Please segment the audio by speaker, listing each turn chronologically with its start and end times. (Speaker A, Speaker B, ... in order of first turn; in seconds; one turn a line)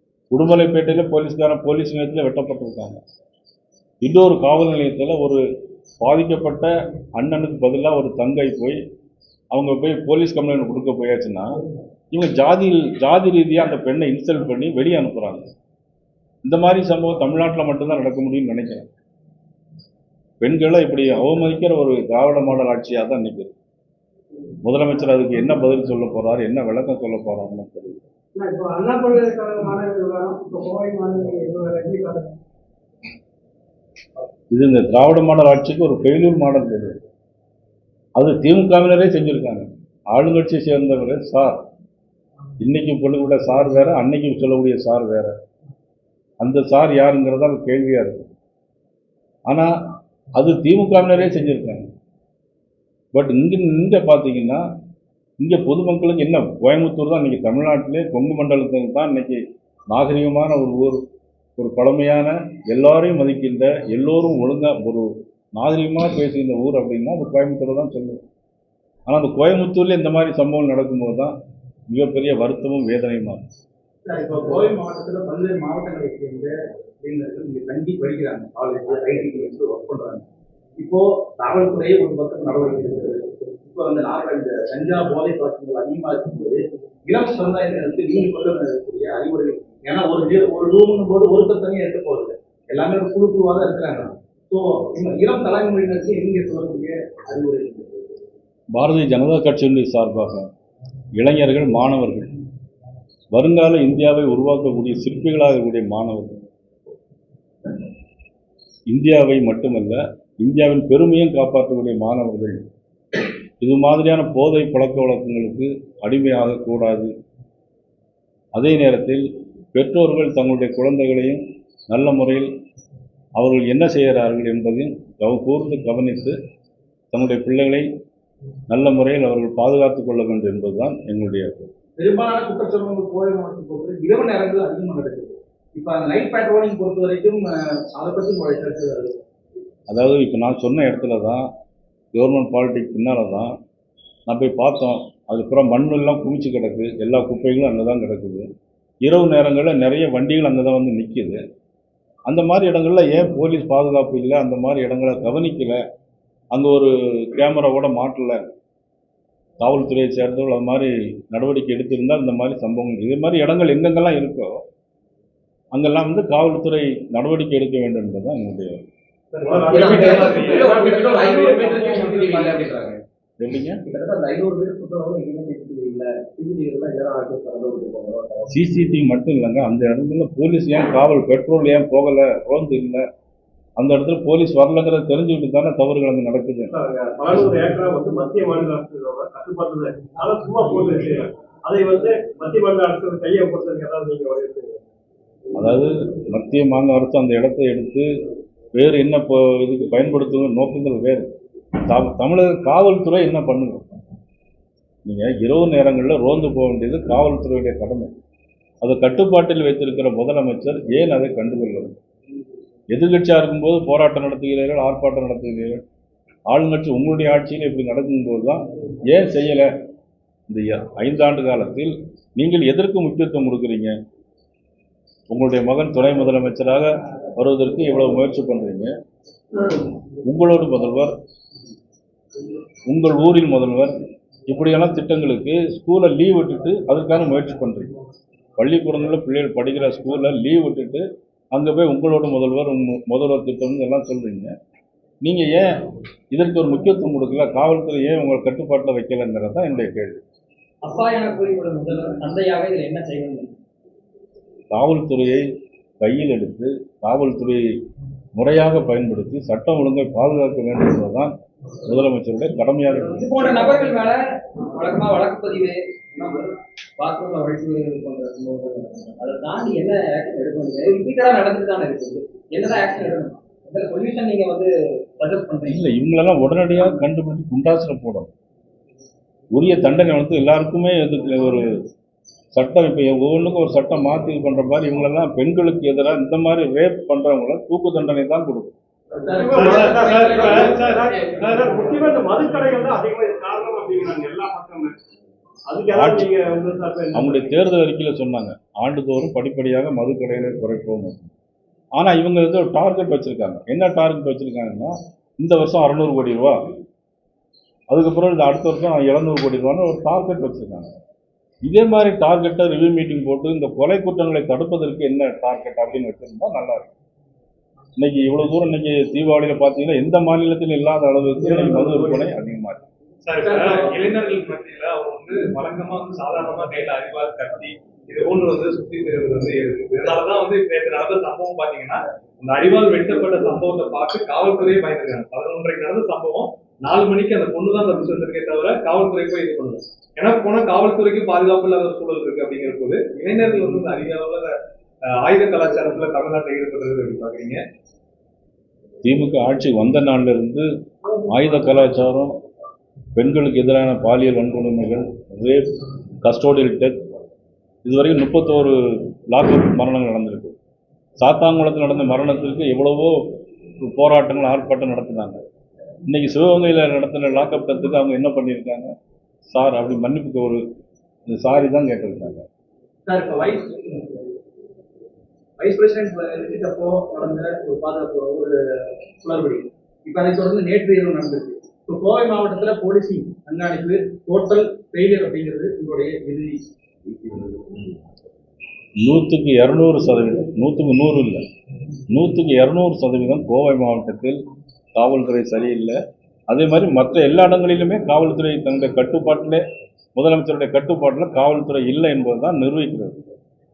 Speaker A: 0.3-3.0
Speaker A: 4.0-5.4
Speaker A: 6.0-8.8
Speaker A: 9.5-11.5
Speaker A: 12.1-15.4
Speaker A: 16.4-18.9
Speaker A: 20.4-23.5
Speaker A: 24.6-28.0
Speaker B: 28.5-32.2
Speaker A: 34.5-37.0
Speaker A: 38.2-41.6
Speaker A: 42.6-45.3
Speaker A: 46.4-48.3
Speaker A: 50.4-51.8
Speaker A: 53.1-54.6
Speaker A: 55.4-61.0
Speaker A: 61.6-68.2
Speaker A: 69.1-71.3
Speaker A: 71.9-73.4
Speaker C: 74.0-80.2
Speaker C: 80.8-98.0
Speaker A: 98.7-100.5
Speaker A: 101.2-102.3
Speaker A: 103.3-106.5
Speaker A: 108.9-112.6
Speaker A: 113.6-117.1
Speaker A: 118.5-122.5
Speaker A: 123.4-126.3
Speaker A: 127.1-127.8
Speaker A: 128.7-131.7
Speaker C: 132.0-139.2
Speaker A: 139.9-141.5
Speaker A: 142.1-143.5
Speaker A: 144.3-148.4
Speaker A: 149.0-151.4
Speaker A: 152.3-155.8
Speaker A: 156.5-158.4
Speaker A: 159.6-164.6
Speaker A: 165.7-168.8
Speaker D: 169.4-170.7
Speaker B: 169.4-171.1
Speaker E: 169.7-173.0
Speaker D: 171.3-172.2
Speaker C: 172.2-172.7
Speaker A: 173.4-173.8
Speaker E: 173.8-178.5
Speaker A: 178.5-183.0
Speaker A: 183.8-186.7
Speaker B: 186.7-194.8
Speaker A: 195.6-198.1
Speaker A: 198.7-201.3
Speaker A: 201.9-204.0
Speaker A: 205.0-208.1
Speaker A: 208.8-212.0
Speaker A: 212.9-215.8
Speaker A: 216.5-219.7
Speaker A: 220.5-223.9
Speaker A: 225.3-228.9
Speaker A: 230.2-231.1
Speaker A: 232.9-233.9
Speaker A: 234.5-237.9
Speaker A: 238.6-244.5
Speaker A: 245.2-245.7
Speaker A: 246.3-250.2
Speaker E: 250.8-253.6
Speaker A: 254.7-255.4
Speaker A: 256.0-257.6
Speaker A: 258.4-261.3
Speaker A: 261.8-263.3
Speaker E: 263.1-264.2
Speaker E: 264.7-275.8
Speaker A: 275.6-278.3
Speaker A: 279.5-281.7
Speaker A: 282.5-288.8
Speaker E: 289.2-291.8
Speaker B: 289.3-294.9
Speaker B: 295.7-297.6
Speaker A: 295.9-296.3
Speaker A: 297.1-301.3
Speaker A: 302.0-306.6
Speaker A: 307.9-310.9
Speaker A: 311.6-316.9
Speaker A: 318.0-322.8
Speaker B: 321.4-322.2
Speaker D: 323.2-344.5
Speaker D: 345.2-347.6
Speaker A: 349.0-350.7
Speaker A: 351.2-352.3
Speaker A: 353.1-355.7
Speaker A: 356.2-357.0
Speaker A: 357.8-360.6
Speaker A: 361.2-363.2
Speaker A: 363.8-365.4
Speaker A: 366.1-368.9
Speaker A: 369.5-370.6
Speaker A: 371.3-372.4
Speaker E: 373.1-374.3
Speaker C: 375.6-378.5
Speaker E: 377.1-377.6
Speaker C: 379.2-382.4
Speaker E: 380.1-384.1
Speaker C: 383.4-386.5
Speaker A: 389.0-391.4
Speaker A: 392.1-394.4
Speaker A: 394.9-395.9
Speaker A: 396.5-399.6
Speaker A: 400.1-403.2